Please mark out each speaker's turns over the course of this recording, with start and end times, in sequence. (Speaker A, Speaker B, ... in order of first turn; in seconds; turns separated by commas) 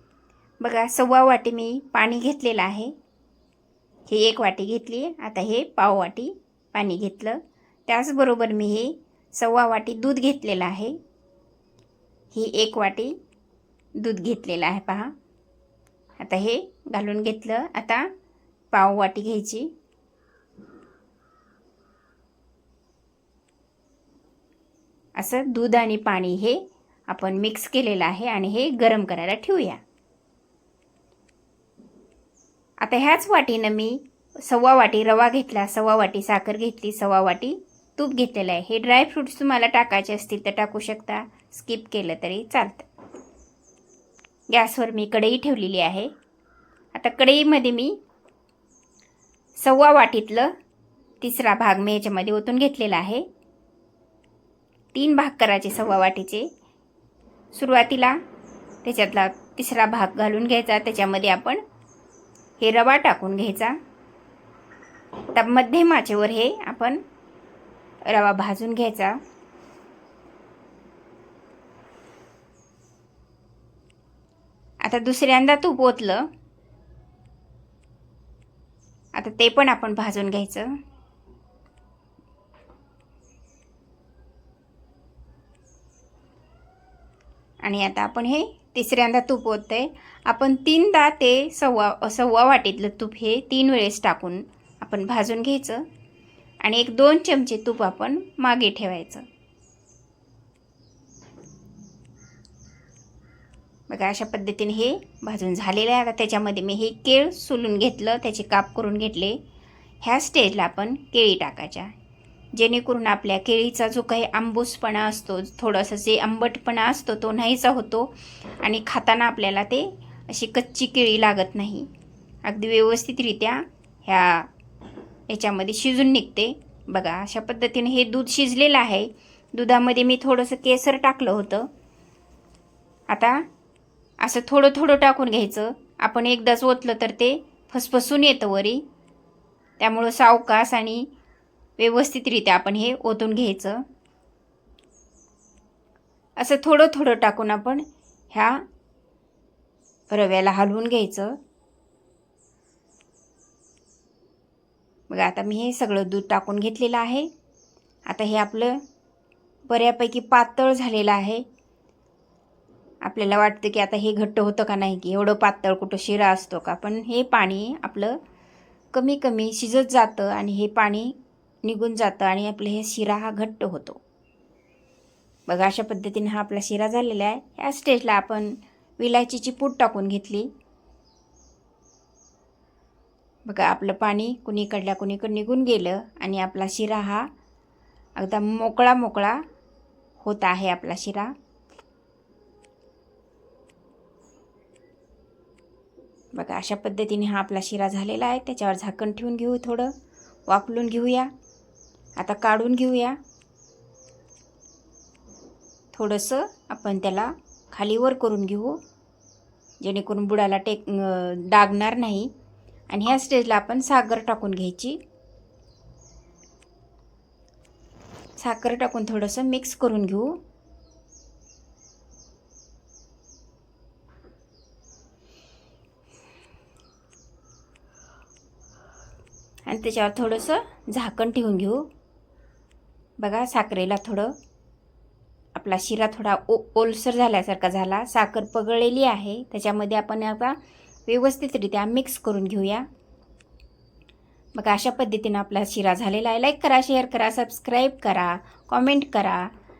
Speaker A: 0.6-2.9, Speaker A: 4.1-10.9, Speaker A: 12.3-13.1, Speaker A: 14.0-15.1, Speaker A: 16.2-18.1, Speaker A: 18.7-19.7, Speaker A: 25.2-29.8, Speaker A: 32.8-42.9, Speaker A: 44.5-46.1, Speaker A: 46.9-47.9, Speaker A: 49.6-50.5, Speaker A: 51.2-53.2, Speaker A: 54.9-56.5, Speaker A: 57.5-58.2, Speaker A: 58.8-61.6, Speaker A: 62.6-63.8, Speaker A: 65.3-67.0, Speaker A: 68.1-69.2, Speaker A: 74.8-76.3, Speaker A: 79.1-80.7, Speaker A: 87.6-95.8, Speaker A: 96.6-99.2, Speaker A: 103.9-109.4, Speaker A: 110.0-111.9, Speaker A: 112.5-121.9, Speaker A: 122.5-124.5, Speaker A: 125.3-131.7, Speaker A: 133.1-133.4, Speaker A: 134.2-138.8, Speaker A: 139.8-141.1, Speaker A: 141.8-143.8, Speaker A: 146.4-148.6, Speaker A: 150.1-151.3, Speaker A: 155.1-157.3, Speaker A: 158.1-158.8, Speaker A: 159.7-161.4, Speaker A: 163.0-168.2, Speaker A: 168.9-174.0, Speaker A: 175.5-180.5, Speaker A: 183.4-187.3, Speaker A: 188.2-189.4, Speaker A: 190.2-191.3, Speaker A: 196.3-199.9, Speaker A: 200.5-201.3, Speaker A: 202.2-203.2, Speaker A: 205.9-208.8, Speaker A: 209.8-212.3, Speaker A: 212.9-215.0, Speaker A: 218.4-220.4, Speaker A: 229.7-231.8, Speaker A: 233.2-234.3, Speaker A: 235.5-242.8, Speaker A: 244.5-249.5